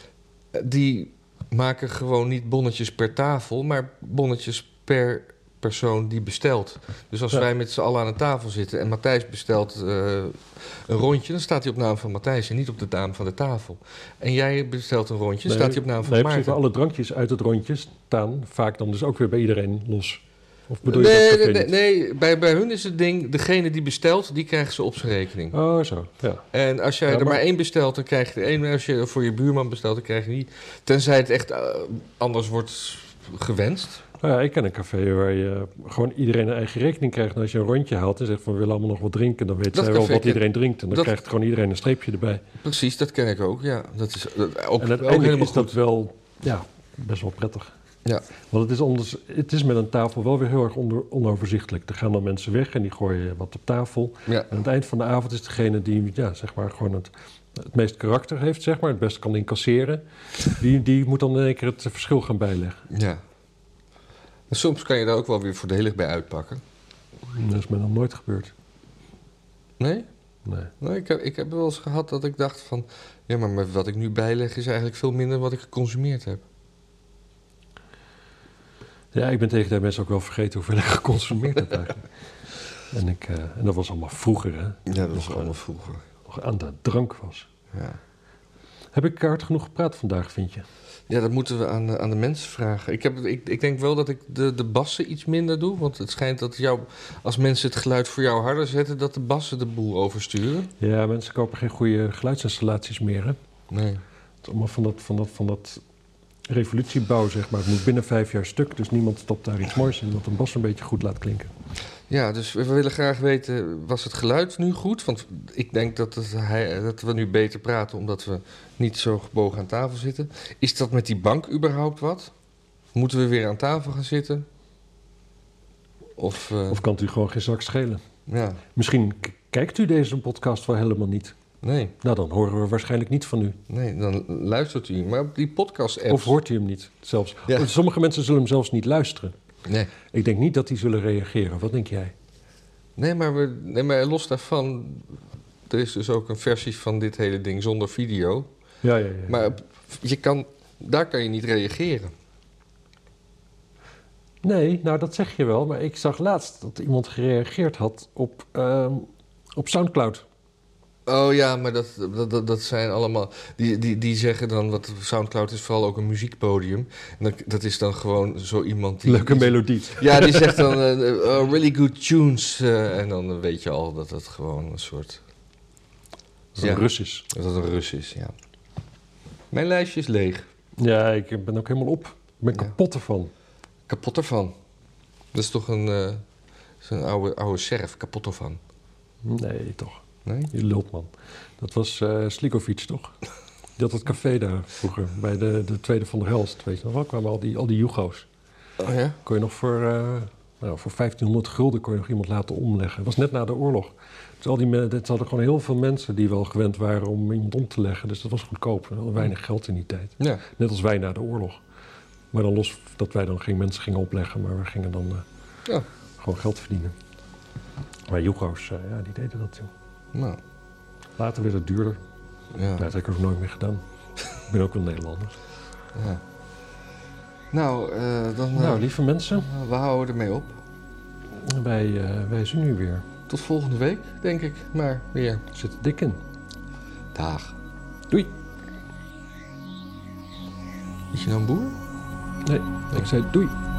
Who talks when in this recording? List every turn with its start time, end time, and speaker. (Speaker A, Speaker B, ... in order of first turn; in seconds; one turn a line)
Speaker A: 0.5-16.6
Speaker B: 15.5-21.7
Speaker A: 20.8-25.6
Speaker B: 25.5-26.4
Speaker A: 26.5-34.0
Speaker B: 27.1-27.4
Speaker B: 34.2-42.5
Speaker A: 39.7-41.1
Speaker A: 42.6-45.8
Speaker B: 44.8-47.7
Speaker B: 48.5-62.8
Speaker A: 62.9-63.2
Speaker A: 64.5-66.6
Speaker B: 67.3-68.5
Speaker A: 69.8-70.1
Speaker B: 70.5-70.7
Speaker A: 70.8-76.4
Speaker B: 79.1-82.1
Speaker B: 82.9-85.6
Speaker A: 84.9-86.0
Speaker B: 86.3-87.5
Speaker A: 87.7-88.0
Speaker B: 88.9-90.7
Speaker A: 91.1-100.7
Speaker B: 100.8-103.4
Speaker A: 103.7-104.0
Speaker B: 104.4-105.8
Speaker B: 106.5-111.5
Speaker A: 112.1-122.3
Speaker A: 122.9-124.5
Speaker A: 126.2-126.8
Speaker B: 126.7-128.0
Speaker A: 128.3-128.6
Speaker B: 128.8-131.3
Speaker A: 131.6-131.9
Speaker B: 132.0-133.6
Speaker A: 133.7-136.4
Speaker B: 136.1-139.3
Speaker A: 139.7-139.9
Speaker B: 140.1-142.1
Speaker A: 143.0-148.5
Speaker B: 148.8-149.5
Speaker A: 149.3-152.1
Speaker B: 154.4-160.2
Speaker A: 161.1-175.2
Speaker B: 169.1-170.8
Speaker B: 176.6-177.3
Speaker A: 176.6-178.3
Speaker A: 179.5-180.5
Speaker B: 180.8-183.3
Speaker A: 183.9-184.6
Speaker A: 185.3-186.2
Speaker A: 186.8-188.6
Speaker B: 189.2-193.2
Speaker A: 190.2-190.5
Speaker B: 193.8-198.3
Speaker A: 198.8-199.2
Speaker B: 199.2-211.6
Speaker B: 212.3-215.2
Speaker B: 216.2-216.9
Speaker B: 218.1-219.7
Speaker A: 220.1-220.4
Speaker B: 221.2-222.0
Speaker A: 222.5-222.8
Speaker B: 222.8-223.8
Speaker B: 224.5-225.4
Speaker A: 225.9-226.2
Speaker A: 227.5-230.6
Speaker B: 228.6-229.5
Speaker B: 231.3-233.1
Speaker A: 233.3-235.4
Speaker B: 235.5-236.2
Speaker A: 237.1-237.6
Speaker A: 241.1-241.8
Speaker B: 242.4-243.6